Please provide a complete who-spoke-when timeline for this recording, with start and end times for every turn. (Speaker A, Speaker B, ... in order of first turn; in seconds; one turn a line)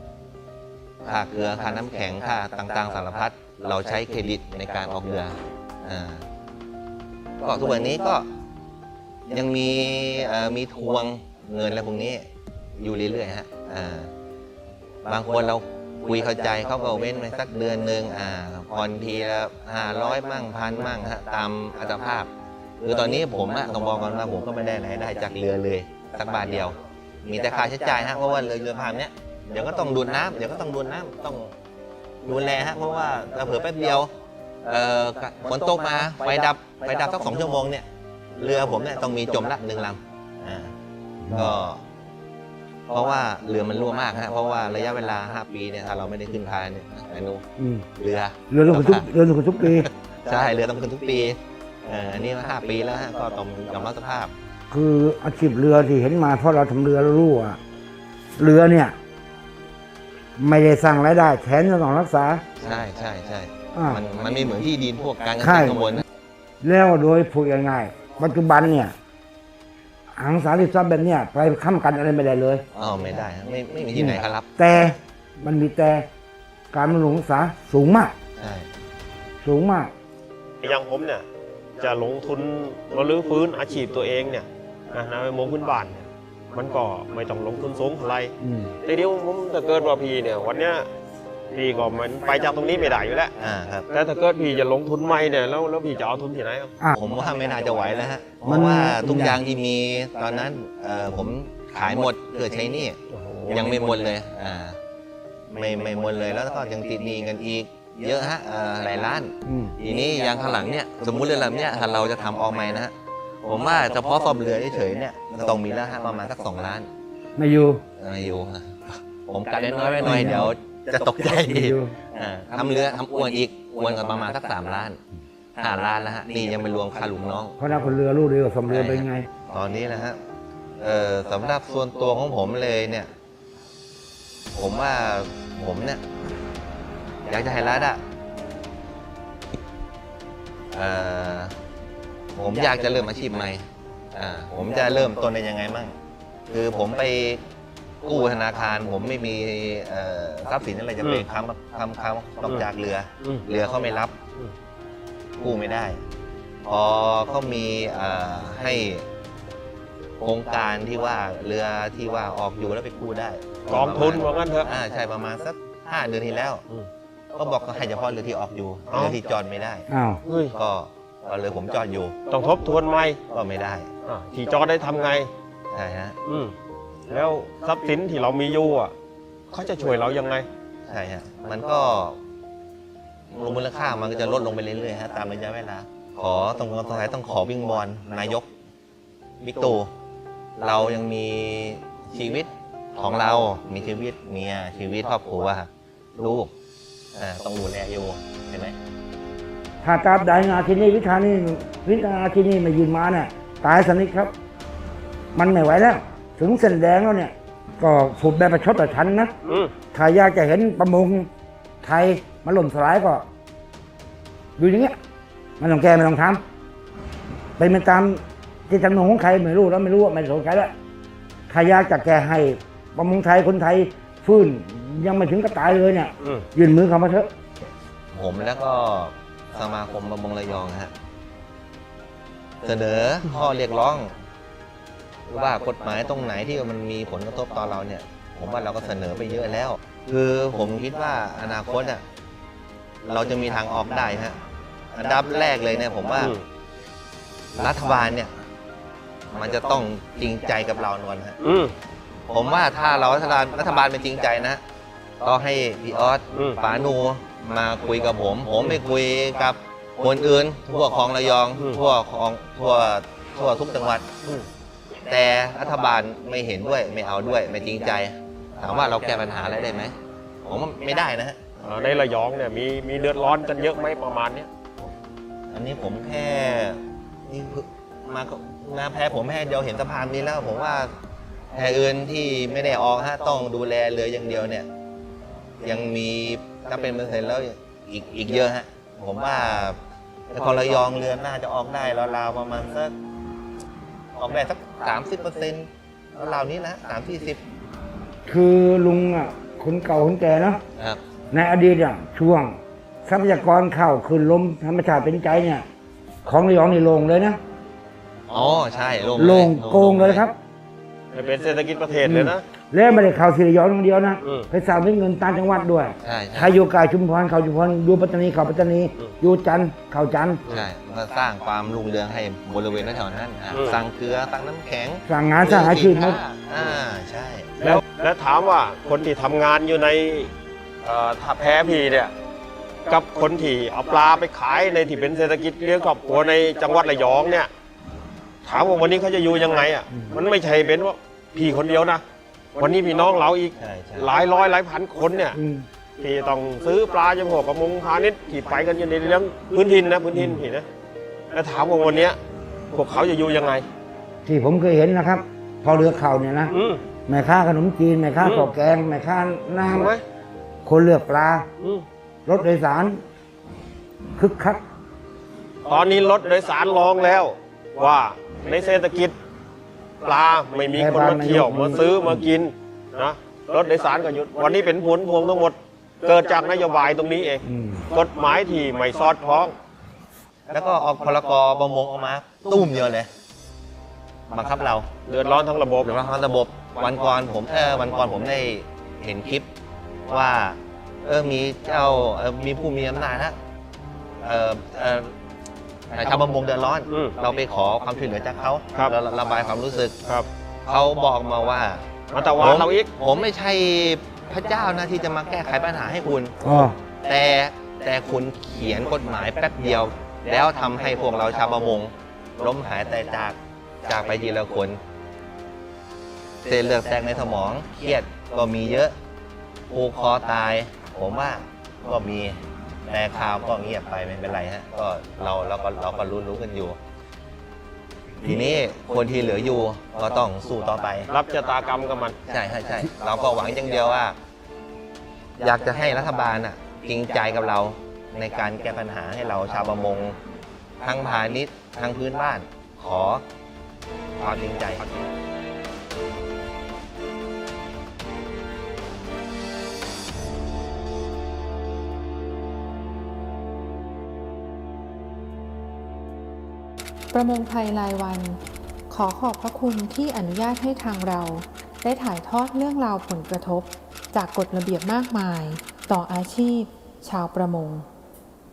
Speaker A: 1.0-6.2
Speaker A: 7.4-8.2
Speaker A: 9.3-12.2
Speaker A: 12.8-14.1
Speaker A: 15.0-22.3
Speaker A: 22.8-31.5
Speaker A: 32.2-34.1
Speaker A: 34.6-40.7
Speaker B: 41.2-41.5
Speaker A: 41.3-41.8
Speaker A: 42.9-47.4
Speaker B: 47.6-47.9
Speaker A: 48.0-49.0
Speaker B: 48.5-49.9
Speaker A: 49.6-54.3
Speaker B: 54.7-57.6
Speaker B: 58.4-59.0
Speaker B: 60.4-62.4
Speaker A: 62.6-66.0
Speaker B: 63.7-64.0
Speaker B: 65.4-65.9
Speaker B: 66.6-68.9
Speaker B: 70.2-72.6
Speaker A: 72.7-74.5
Speaker B: 73.9-76.1
Speaker B: 76.7-78.1
Speaker A: 78.4-78.7
Speaker B: 79.4-79.9
Speaker C: 80.6-81.2
Speaker C: 81.8-88.3
Speaker B: 88.4-88.7
Speaker C: 88.8-90.9
Speaker C: 91.5-93.3
Speaker A: 93.4-93.9
Speaker C: 93.9-96.7
Speaker A: 96.9-104.8
Speaker B: 98.4-99.4
Speaker C: 103.1-103.7
Speaker A: 105.5-116.9
Speaker B: 109.5-109.7
Speaker B: 117.3-117.8
Speaker A: 118.0-125.0
Speaker B: 120.0-120.5
Speaker B: 121.5-121.9
Speaker A: 125.6-127.7
Speaker B: 127.6-129.3
Speaker A: 128.7-130.2
Speaker A: 130.8-133.1
Speaker A: 134.5-136.0
Speaker A: 137.3-138.0
Speaker A: 140.7-141.5
Speaker A: 142.3-143.6
Speaker A: 144.1-145.9
Speaker A: 146.5-147.4
Speaker A: 148.0-154.1
Speaker A: 155.4-156.0
Speaker A: 156.6-159.0
Speaker A: 160.2-166.6
Speaker C: 163.7-164.7
Speaker A: 167.3-169.8
Speaker C: 168.9-169.2
Speaker B: 169.9-170.2
Speaker C: 170.2-170.5
Speaker A: 170.5-172.2
Speaker C: 172.3-173.2
Speaker A: 173.3-173.9
Speaker C: 174.0-175.3
Speaker A: 175.7-176.2
Speaker C: 176.2-176.5
Speaker C: 177.1-178.9
Speaker C: 179.5-180.5
Speaker A: 180.8-182.2
Speaker A: 183.3-188.5
Speaker A: 189.4-189.9
Speaker A: 190.6-196.5
Speaker A: 197.2-198.7
Speaker B: 199.8-204.3
Speaker B: 205.3-209.3
Speaker C: 209.4-209.7
Speaker B: 209.9-211.3
Speaker B: 211.8-213.2
Speaker B: 214.6-214.9
Speaker B: 215.6-216.4
Speaker B: 217.6-220.7
Speaker B: 221.5-227.3
Speaker C: 226.2-226.4
Speaker A: 228.1-230.9
Speaker A: 232.6-234.1
Speaker A: 235.3-242.0
Speaker A: 243.0-244.3
Speaker A: 244.9-246.3
Speaker C: 246.2-246.4
Speaker A: 247.6-248.3
Speaker A: 249.3-251.4
Speaker C: 251.4-251.7
Speaker A: 252.3-254.6
Speaker A: 255.2-264.1
Speaker C: 256.3-256.6
Speaker A: 265.1-271.5
Speaker C: 271.6-274.5
Speaker A: 275.5-280.9
Speaker A: 281.5-284.7
Speaker A: 285.6-289.8
Speaker A: 290.3-292.9
Speaker A: 294.1-297.4
Speaker B: 298.2-300.6
Speaker B: 301.3-305.6
Speaker B: 306.2-307.4
Speaker A: 308.3-310.2
Speaker B: 309.2-310.3
Speaker C: 311.1-312.4
Speaker B: 312.0-320.4
Speaker C: 314.2-314.5
Speaker A: 316.0-316.6
Speaker A: 320.5-327.5
Speaker C: 323.5-323.8
Speaker B: 325.1-326.2
Speaker C: 327.6-330.3
Speaker C: 330.8-332.1
Speaker C: 332.9-337.5
Speaker C: 338.4-342.0
Speaker C: 342.6-345.4
Speaker A: 343.6-344.1
Speaker B: 345.3-345.6
Speaker C: 346.0-350.7
Speaker C: 351.3-352.2
Speaker C: 352.7-353.6
Speaker B: 354.2-356.5
Speaker C: 356.5-356.8
Speaker B: 357.1-359.9
Speaker C: 358.2-358.5
Speaker C: 359.6-360.0
Speaker B: 360.6-361.5
Speaker C: 361.6-361.8
Speaker B: 362.2-363.0
Speaker B: 364.2-364.6
Speaker C: 365.6-369.1
Speaker C: 370.0-379.5
Speaker B: 370.7-372.2
Speaker B: 377.4-377.8
Speaker A: 380.5-383.1
Speaker A: 384.3-384.9
Speaker C: 385.1-385.9
Speaker A: 385.8-389.5
Speaker A: 390.1-393.4
Speaker A: 394.2-395.1
Speaker A: 395.9-400.0
Speaker C: 396.9-397.1
Speaker A: 400.6-401.9
Speaker C: 402.1-402.9
Speaker A: 402.4-414.8
Speaker B: 406.4-406.8
Speaker A: 416.4-418.9
Speaker A: 419.7-426.8
Speaker A: 428.2-431.1
Speaker C: 431.1-432.2
Speaker A: 432.3-434.1
Speaker A: 435.4-440.2
Speaker A: 440.8-443.2
Speaker A: 444.2-444.9
Speaker D: 457.1-467.9